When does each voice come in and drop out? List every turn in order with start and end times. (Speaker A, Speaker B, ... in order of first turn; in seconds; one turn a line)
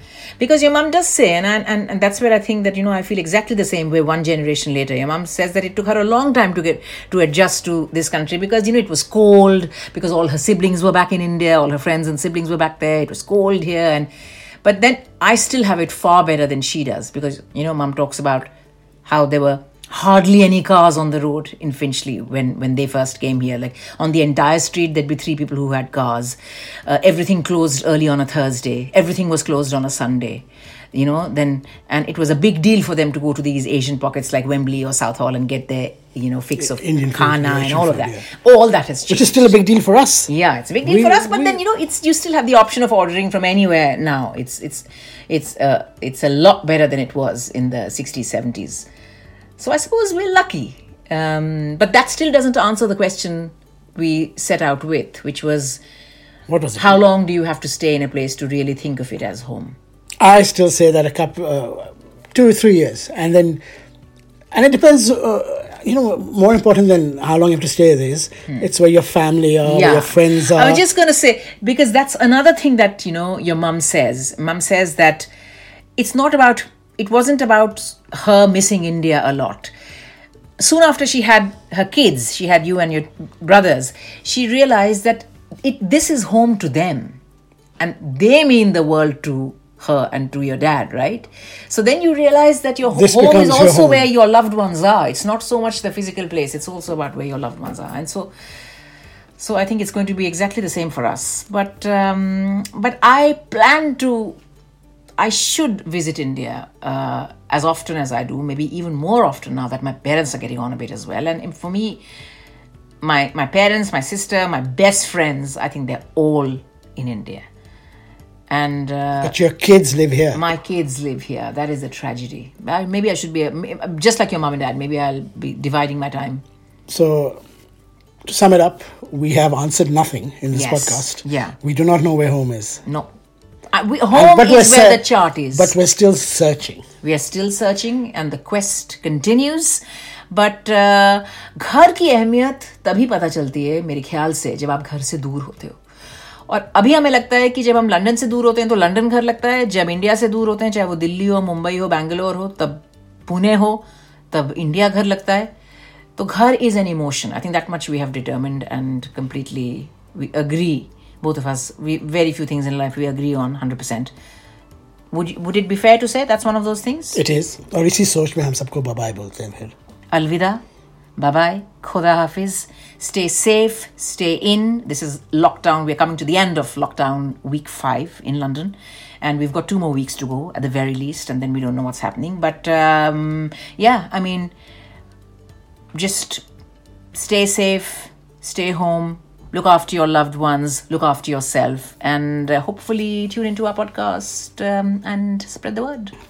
Speaker A: 0.4-14.1
Speaker A: 14.6-18.5
Speaker A: 19.0-39.5
Speaker B: 36.6-38.2
Speaker B: 39.1-40.3
Speaker A: 40.3-48.9
Speaker B: 40.8-41.6
Speaker A: 49.6-55.8
Speaker B: 56.5-57.0
Speaker A: 56.8-59.8
Speaker B: 60.2-63.6
Speaker B: 64.5-70.8
Speaker A: 69.6-75.3
Speaker A: 76.0-79.7
Speaker A: 80.6-87.2
Speaker A: 87.8-98.3
Speaker B: 92.9-94.1
Speaker A: 99.4-104.4
Speaker A: 105.2-112.0
Speaker A: 113.0-117.4
Speaker A: 118.5-119.4
Speaker B: 119.2-120.4
Speaker A: 120.3-126.4
Speaker B: 126.9-127.4
Speaker B: 128.2-132.8
Speaker A: 130.5-131.6
Speaker A: 133.7-135.8
Speaker B: 134.1-136.8
Speaker A: 137.0-145.8
Speaker A: 146.5-155.5
Speaker A: 156.2-164.1
Speaker A: 165.1-167.2
Speaker B: 167.1-169.7
Speaker A: 170.1-170.6
Speaker A: 171.2-184.5
Speaker A: 185.9-186.4
Speaker A: 187.1-196.1